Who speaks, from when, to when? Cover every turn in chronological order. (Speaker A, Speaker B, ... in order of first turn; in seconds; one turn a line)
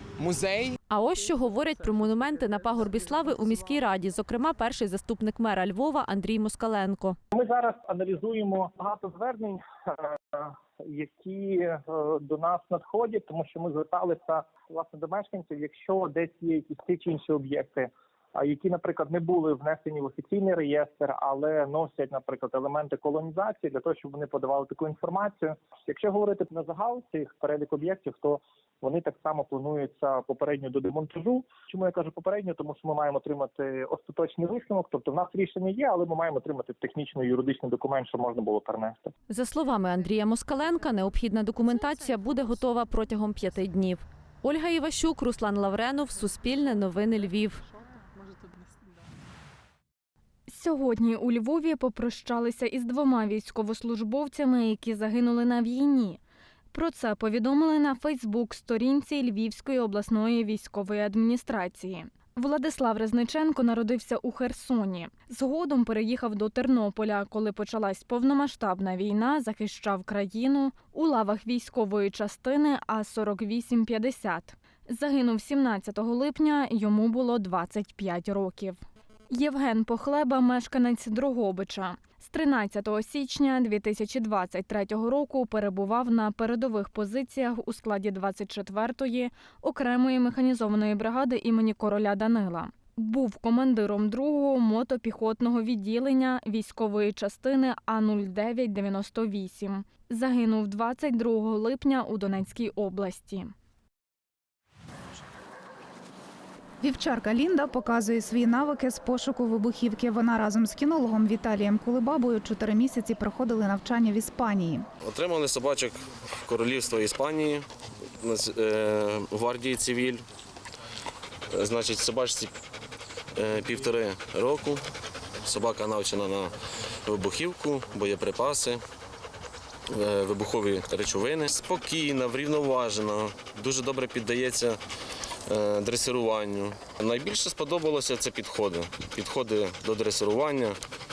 Speaker A: 0.2-0.7
Speaker B: 0.9-7.2
Speaker C: 7.3-9.6
Speaker C: 10.3-39.1
Speaker B: 39.3-47.6
Speaker D: 50.5-56.2
Speaker D: 56.7-103.5
Speaker E: 106.8-114.8
Speaker A: 115.0-117.7
Speaker A: 118.2-120.2
Speaker A: 121.5-122.5
Speaker A: 123.3-124.9
Speaker A: 125.4-128.8
Speaker A: 129.9-134.8
Speaker A: 135.5-140.8